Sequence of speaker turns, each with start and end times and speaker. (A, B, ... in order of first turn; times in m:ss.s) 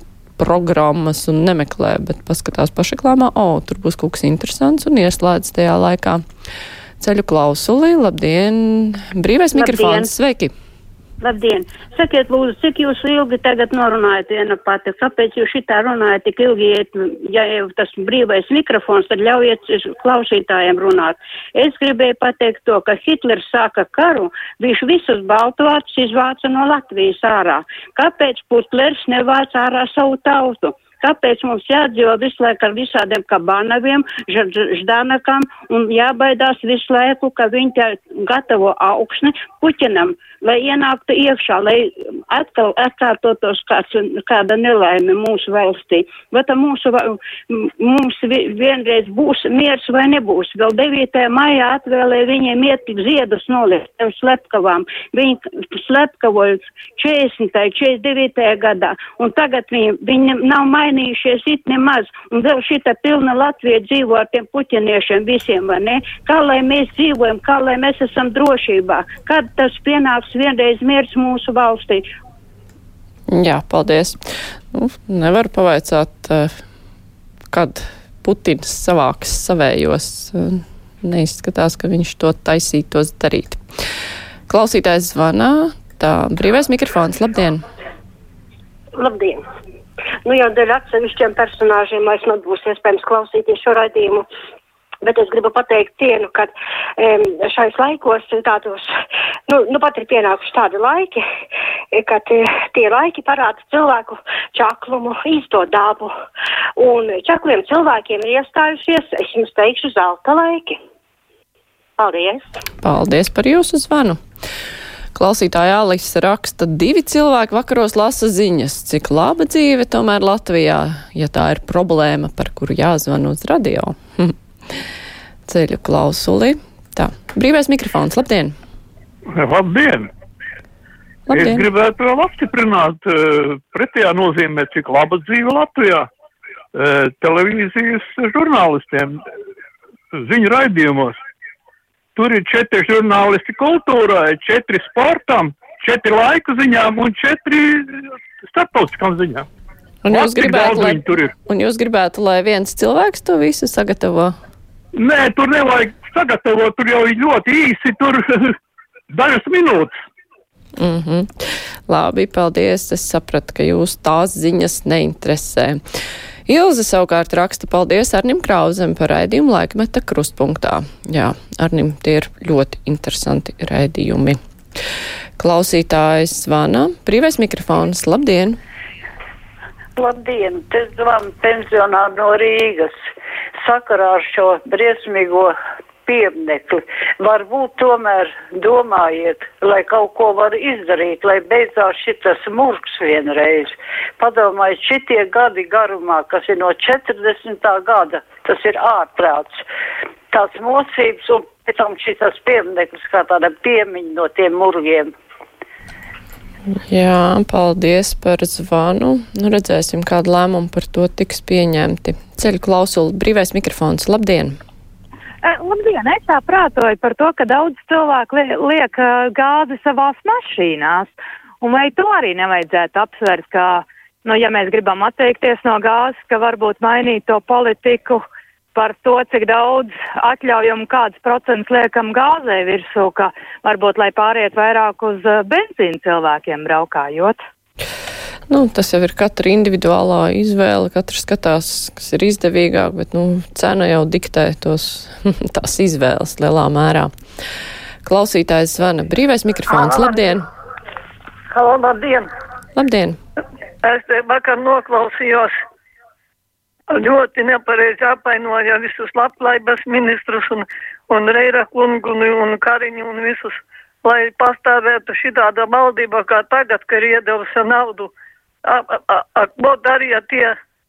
0:00.4-0:06.2 A
0:07.0-0:10.5 A
0:09.5-0:10.1 B
0:11.2-1:12.0 B
1:13.3-1:14.2 A
1:14.7-1:16.6 A
1:17.5-1:23.6 A
1:24.5-1:27.6 A
1:28.9-1:29.4 C
1:30.2-1:34.2 C
1:35.0-1:38.9 C
1:39.5-1:41.2 C
1:41.9-1:46.2 C
1:46.8-1:50.8 C
1:52.0-1:52.5 C
1:52.8-1:54.2 A
1:55.1-2:04.3 A
2:05.5-2:08.5 A
2:09.3-2:10.1 D
2:11.3-2:11.7 A
2:11.3-2:16.1 D
2:16.7-2:19.2 D
2:20.1-2:21.2 D
2:22.1-2:27.9 D
2:28.5-2:29.5 D
2:30.0-2:34.3 A
2:30.1-2:31.3 D
2:34.9-2:38.6 D
2:39.1-2:40.0 D
2:40.8-2:45.8 A
2:46.5-2:54.4 A
2:55.4-2:58.6 A
3:00.0-3:02.9 E
3:03.6-3:05.5 E
3:06.0-3:19.6 E
3:20.3-3:25.1 E
3:26.7-3:34.6 A
3:35.4-3:48.2 F
3:48.7-3:57.4 F
3:58.5-4:07.1 A
4:08.0-4:10.4 A
4:09.8-4:10.1 G
4:11.5-4:12.3 G
4:12.8-4:13.2 A
4:13.8-4:15.5 G
4:16.9-4:28.1 G
4:28.7-4:30.5 G